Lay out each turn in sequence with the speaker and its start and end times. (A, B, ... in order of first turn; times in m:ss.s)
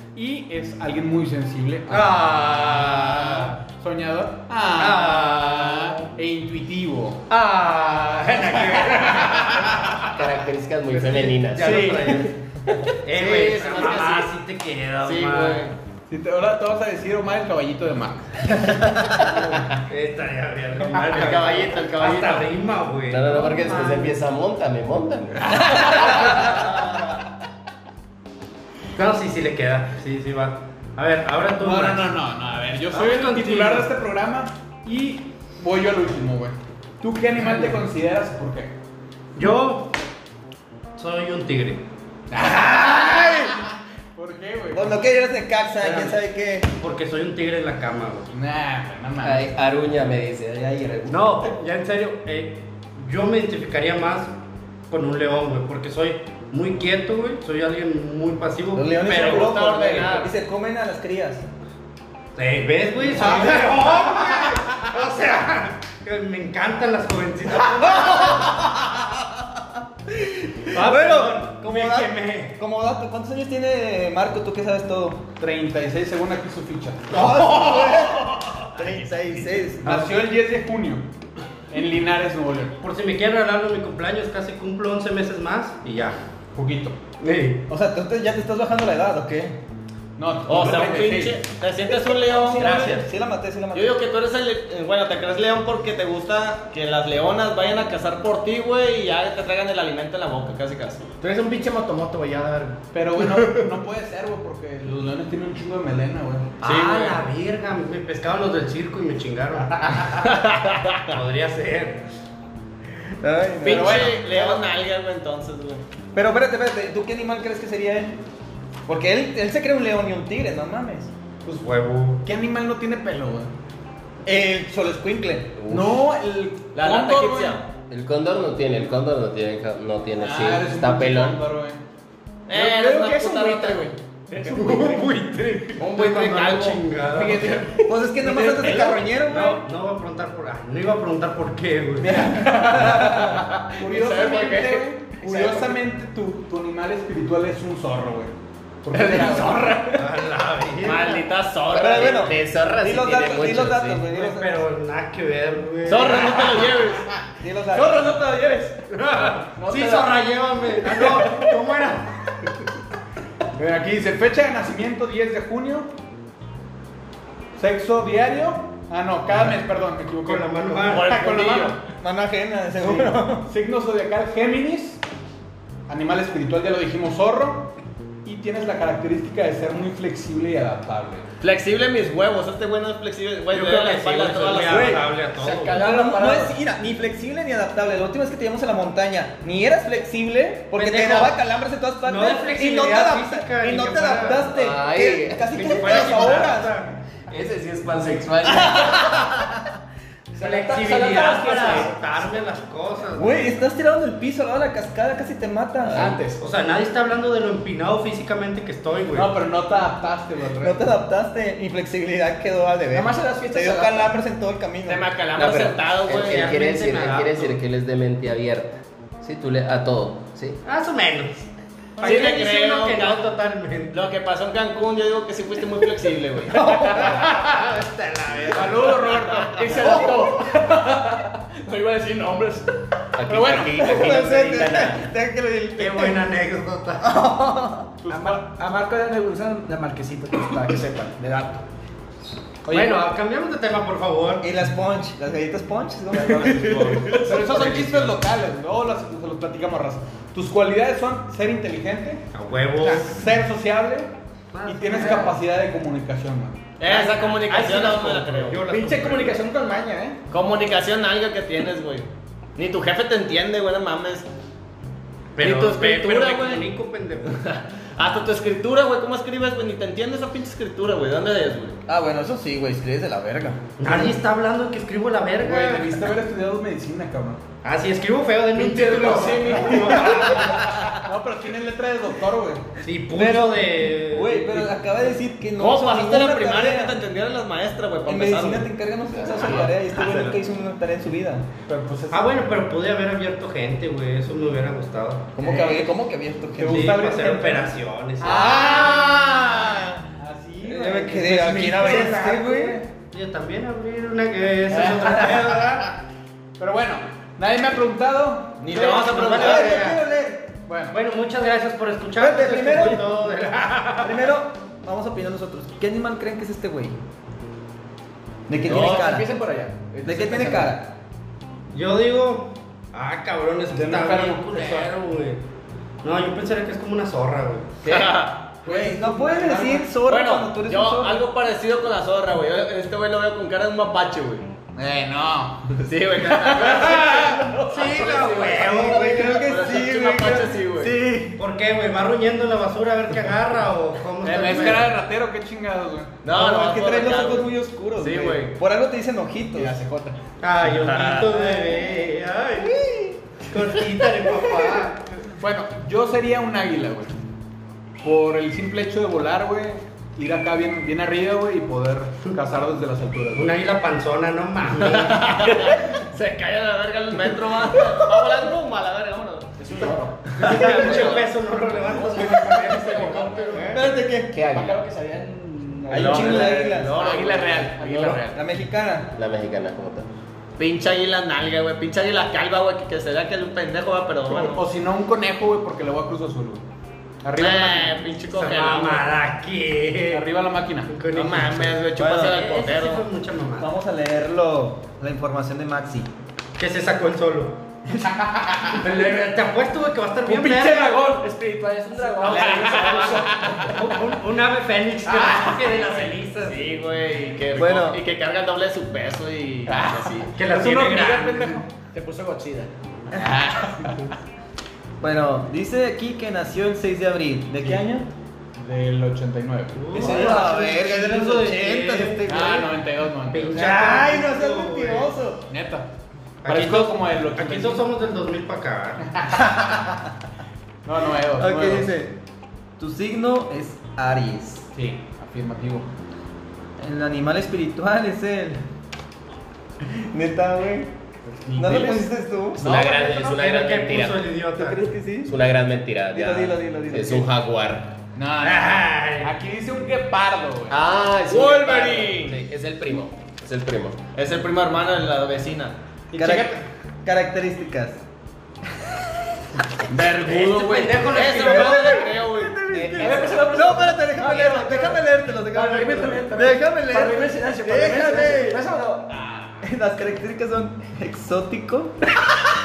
0:00.1-0:07.2 A
0:01.9-0:03.4 B
0:04.8-0:05.9 B
0:07.3-0:09.7 B
0:09.1-0:09.7 A
0:10.0-0:11.9 C
0:10.9-0:12.3 B
0:11.6-0:14.3 D
0:13.0-0:15.7 B
0:15.0-0:15.7 D
0:16.1-0:18.9 A
0:19.3-0:24.1 B
0:21.0-0:22.5 D
0:23.1-0:26.5 C
0:25.5-0:26.2 A
0:29.0-0:32.1 B
0:31.6-0:38.7 A
0:32.9-0:33.9 B
0:39.4-0:39.9 B
0:41.0-0:41.8 B
0:42.3-0:45.0 A
0:42.6-0:43.5 E
0:44.7-0:46.7 E
0:45.8-0:46.2 B
0:46.8-0:48.3 B
0:48.3-0:49.5 A
0:49.2-0:51.5 C
0:51.1-0:54.3 B
0:54.9-0:59.5 B
0:58.7-1:01.4 E
0:59.0-1:00.3 D
1:02.4-1:08.6 B
1:03.1-1:04.2 E
1:07.9-1:09.2 E
1:10.6-1:12.6 B
1:10.7-1:15.2 E
1:15.4-1:17.2 A
1:17.1-1:20.1 E
1:19.8-1:21.0 A
1:21.7-1:22.8 A
1:22.8-1:26.2 B
1:26.6-1:27.0 A
1:27.2-1:27.6 B
1:27.7-1:29.6 E
1:30.2-1:31.4 A
1:30.5-1:33.0 D
1:32.2-1:34.0 E
1:33.7-1:42.8 D
1:42.9-1:46.5 A
1:46.6-1:50.3 B
1:46.6-1:47.2 D
1:50.2-1:51.0 D
1:51.0-1:52.0 B
1:53.2-1:54.6 E
1:53.6-1:55.8 D
1:53.6-1:54.3 A
1:56.1-1:58.2 E
1:58.9-2:01.1 E
2:01.5-2:02.2 B
2:02.2-2:03.5 A
2:04.2-2:05.5 E
2:05.6-2:06.0 C
2:05.7-2:07.6 A
2:06.7-2:07.6 D
2:07.9-2:11.4 C
2:10.2-2:11.8 A
2:12.5-2:14.6 D
2:12.6-2:15.1 F
2:14.5-2:17.6 B
2:15.8-2:17.4 D
2:17.2-2:17.5 A
2:17.4-2:17.8 F
2:17.8-2:19.6 E
2:18.7-2:22.4 B
2:22.0-2:28.3 A
2:22.5-2:23.4 F
2:22.6-2:23.3 E
2:23.8-2:25.6 D
2:28.8-2:29.7 A
2:28.9-2:30.0 F
2:29.9-2:31.2 B
2:30.8-2:32.4 D
2:31.7-2:34.6 E
2:32.0-2:34.1 C
2:34.1-2:36.7 B
2:35.8-2:37.1 D
2:37.4-2:38.2 E
2:37.7-2:38.8 F
2:38.9-2:42.1 B
2:39.6-2:40.1 A
2:43.5-2:45.9 A
2:47.6-2:51.8 A
2:50.2-2:51.1 B
2:51.0-2:51.7 F
2:51.2-2:51.6 D
2:52.0-2:53.5 E
2:52.8-2:55.0 A
2:55.9-2:57.7 A
2:58.2-3:01.2 A
3:01.4-3:05.2 D
3:03.5-3:05.8 B
3:05.4-3:06.5 F
3:05.7-3:16.9 E
3:10.7-3:11.4 B
3:12.0-3:14.4 B
3:14.5-3:16.0 C
3:15.5-3:16.9 B
3:17.3-3:19.1 C
3:18.5-3:19.6 E
3:20.3-3:21.9 F
3:20.4-3:23.5 B
3:23.2-3:26.2 E
3:26.4-3:29.3 B
3:29.1-3:30.9 A
3:30.6-3:35.0 E
3:32.9-3:34.1 F
3:34.8-3:36.5 D
3:35.3-3:40.6 C
3:36.1-3:37.6 B
3:40.6-3:41.5 B
3:42.0-3:44.0 B
3:42.0-3:42.3 A
3:42.0-3:43.2 D
3:43.9-3:47.2 D
3:46.6-3:49.1 B
3:48.5-3:50.0 A
3:49.5-3:52.7 F
3:53.1-3:55.1 C
3:53.3-3:53.9 A
3:53.8-3:56.2 E
3:55.8-3:57.1 B
3:57.0-3:57.9 E
3:58.0-3:58.5 A
3:58.1-4:01.6 F
4:02.7-4:03.0 A
4:02.7-4:04.5 B
4:04.4-4:07.1 E
4:06.6-4:08.1 B
4:06.9-4:12.2 A
4:12.3-4:13.2 B
4:12.8-4:14.1 A
4:14.5-4:15.4 B
4:14.6-4:16.6 A
4:16.8-4:18.6 D
4:16.9-4:19.4 B
4:18.7-4:20.2 F
4:20.3-4:24.3 D
4:25.4-4:27.4 B
4:25.4-4:26.7 D
4:27.2-4:31.8 D
4:31.9-4:34.1 E
4:33.8-4:36.0 B
4:35.4-4:37.4 A
4:37.6-4:40.6 B
4:38.9-4:42.7 A
4:39.0-4:40.0 D
4:42.8-4:44.7 B
4:43.1-4:47.0 E
4:45.6-4:48.7 D
4:48.0-4:51.5 E
4:49.4-4:50.3 D
4:51.7-4:52.4 A
4:52.1-4:55.4 B
4:55.4-4:57.1 E
4:55.4-4:55.8 A
4:56.6-4:57.7 A
4:56.6-4:58.6 B
4:58.2-4:59.2 A
4:58.2-5:00.0 E
5:00.2-5:02.2 A
5:00.6-5:02.8 E
5:01.7-5:05.9 B
5:04.7-5:05.7 A
5:06.6-5:08.6 A
5:08.6-5:09.9 D
5:08.7-5:10.0 B
5:08.7-5:10.5 E
5:10.7-5:11.0 A
5:10.9-5:14.3 B
5:12.2-5:13.2 E
5:14.0-5:17.0 E
5:18.5-5:19.3 E
5:18.6-5:20.8 F
5:20.0-5:20.9 E
5:21.7-5:25.4 B
5:23.7-5:24.9 A
5:26.0-5:27.7 B
5:27.8-5:28.5 D
5:27.8-5:28.1 E
5:28.6-5:31.2 E
5:28.7-5:29.8 A
5:30.0-5:34.5 D
5:34.8-5:37.6 A
5:35.8-5:40.9 D
5:37.7-5:39.4 B
5:38.3-5:41.4 E
5:41.4-5:44.9 B
5:44.2-5:46.2 A
5:46.2-5:48.6 D
5:46.3-5:49.8 E
5:49.6-5:50.2 F
5:50.4-5:52.8 B
5:50.6-5:51.4 D
5:52.6-5:53.2 E
5:53.4-5:55.0 B
5:55.4-5:57.1 A
5:58.0-6:03.5 A
6:03.4-6:05.6 B
6:04.8-6:11.3 D
6:09.6-6:11.2 F
6:10.4-6:13.8 B
6:11.8-6:13.8 F
6:13.5-6:13.8 D
6:13.7-6:14.4 E
6:14.3-6:14.8 C
6:14.4-6:18.3 F
6:15.9-6:17.1 E
6:15.9-6:18.1 D
6:17.0-6:18.4 A
6:18.3-6:19.1 E
6:19.1-6:20.1 C
6:20.6-6:24.6 D
6:24.3-6:26.6 A
6:27.2-6:28.0 A
6:27.4-6:29.1 D
6:28.3-6:30.3 B
6:30.1-6:31.0 A
6:30.9-6:33.7 B
6:31.1-6:33.0 D
6:32.0-6:32.5 E
6:33.6-6:36.1 E
6:36.6-6:37.6 B
6:38.2-6:38.8 A
6:38.7-6:41.1 B
6:40.3-6:43.8 F
6:42.0-6:46.6 B
6:42.3-6:43.7 A
6:45.2-6:45.7 A
6:46.4-6:50.3 D
6:47.5-6:48.0 E
6:49.7-6:51.7 A
6:50.4-6:51.6 B
6:51.9-6:52.7 F
6:53.1-6:54.1 A
6:55.0-6:58.1 E
6:58.6-7:00.2 A
6:59.7-7:02.3 B
6:59.9-7:02.7 E
7:02.3-7:03.7 A
7:03.3-7:05.1 B
7:03.5-7:05.4 E
7:05.5-7:05.9 A
7:06.4-7:09.1 B
7:06.4-7:07.9 A
7:10.8-7:11.9 A
7:11.4-7:12.2 E
7:12.8-7:14.6 E
7:14.7-7:15.8 A
7:16.8-7:18.6 E
7:19.8-7:20.9 E
7:21.4-7:22.0 A
7:21.6-7:22.6 E
7:22.6-7:24.3 C
7:22.6-7:23.3 A
7:23.2-7:24.8 B
7:24.6-7:25.3 E
7:25.2-7:27.9 C
7:26.1-7:27.3 E
7:28.2-7:30.8 A
7:28.4-7:29.3 B
7:30.7-7:34.0 C
7:31.3-7:32.4 D
7:34.1-7:35.8 D
7:36.1-7:38.0 E
7:39.9-7:41.1 A
7:40.0-7:42.6 D
7:40.2-7:42.1 B
7:41.3-7:48.7 E
7:42.7-7:43.1 C
7:42.8-7:49.5 F
7:49.6-7:51.9 E